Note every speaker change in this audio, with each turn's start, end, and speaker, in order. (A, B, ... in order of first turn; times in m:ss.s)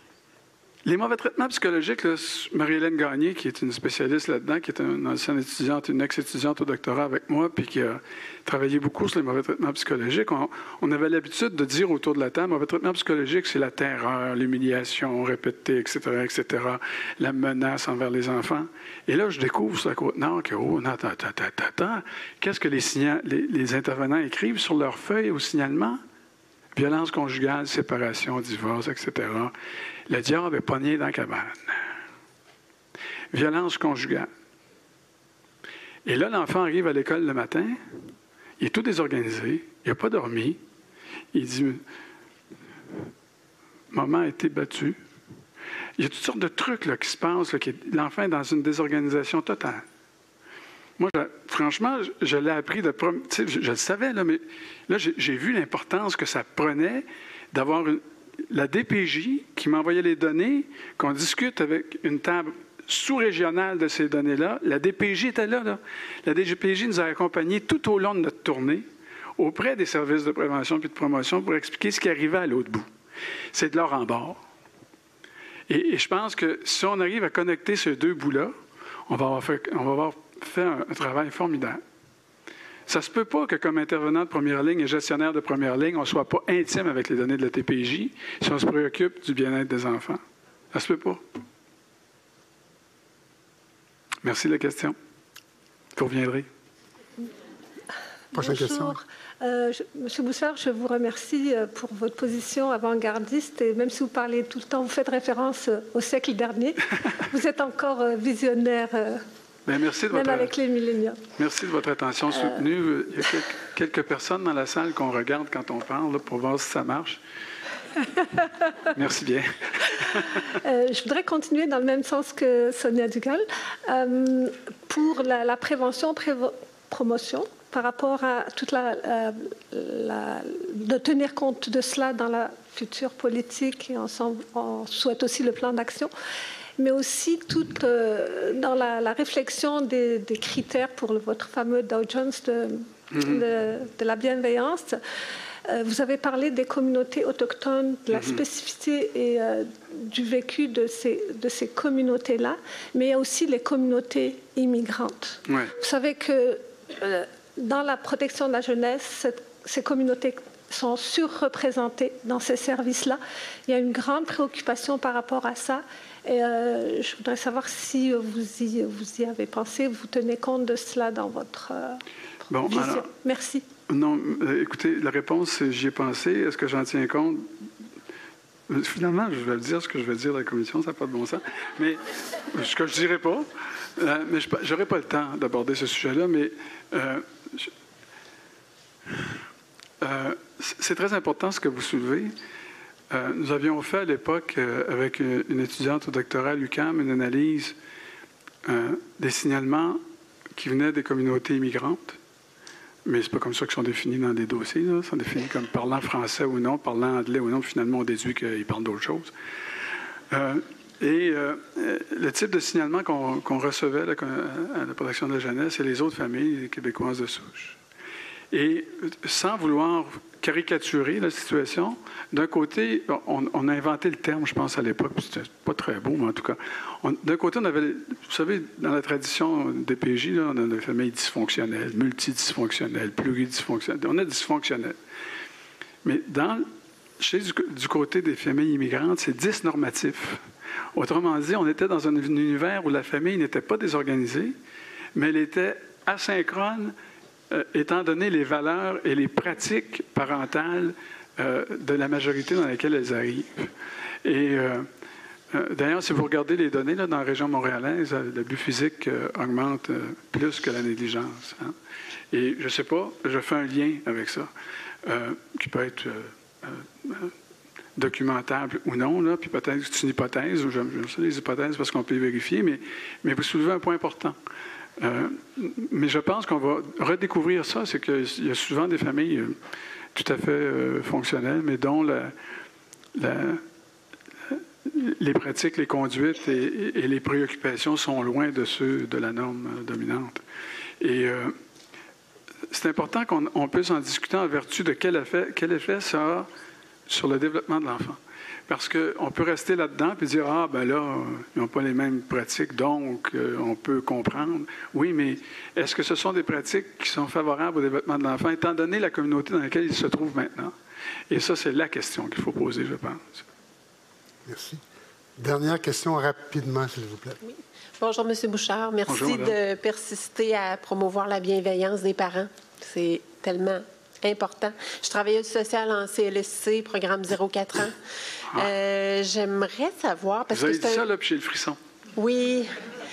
0:00.8-0:26.0 A
0:26.7-0:29.5 A
0:30.1-0:31.9 A
0:33.3-0:34.3 A
0:36.0-0:37.8 A
0:38.6-0:40.6 A
0:41.3-0:41.8 A
0:43.9-0:45.0 A
0:46.0-0:49.8 A
0:51.0-1:08.9 A
1:09.4-1:12.9 A
1:13.5-1:14.4 A
1:15.7-1:18.5 A
1:19.1-1:21.8 A
1:22.9-1:30.2 A
1:30.7-1:31.2 A
1:34.2-1:35.0 A
1:36.0-1:36.5 A
1:38.3-1:49.2 B
1:38.3-1:39.0 C
1:49.7-1:50.6 A
1:50.1-1:51.2 B
1:51.4-1:57.2 A
1:58.9-2:00.5 A
2:00.5-2:16.1 B
2:16.8-2:25.0 B
2:23.1-2:23.4 A
2:25.6-2:52.0 B
2:28.1-2:28.4 A
2:35.5-2:35.7 A
2:52.5-2:53.1 A
2:52.6-2:53.6 B
2:53.9-2:57.5 A
2:58.7-3:07.7 A
3:10.0-3:12.4 A
3:13.1-3:17.8 A
3:18.6-3:20.0 A
3:20.6-3:22.2 A
3:23.0-3:29.3 A
3:30.3-3:37.8 A
3:38.5-3:55.0 A
3:56.0-3:56.7 A
3:57.2-4:00.4 A
4:01.0-4:04.5 A
4:05.1-4:06.9 A
4:07.5-4:13.7 A
4:14.2-4:14.9 A
4:15.5-4:21.8 A
4:22.3-4:24.5 A
4:25.0-4:27.3 A
4:28.0-4:34.4 A
4:35.0-4:39.6 A
4:40.1-4:42.3 A
4:43.1-4:43.6 A
4:44.5-4:50.4 A
4:51.0-4:51.6 A
4:52.7-4:56.5 A
4:57.1-5:10.7 A
5:11.3-5:13.4 A
5:14.4-5:14.8 C
5:15.4-5:17.4 C
5:17.4-5:28.0 D
5:19.1-5:19.6 A
5:28.5-5:31.0 D
5:30.5-5:31.8 A
5:32.2-5:32.7 D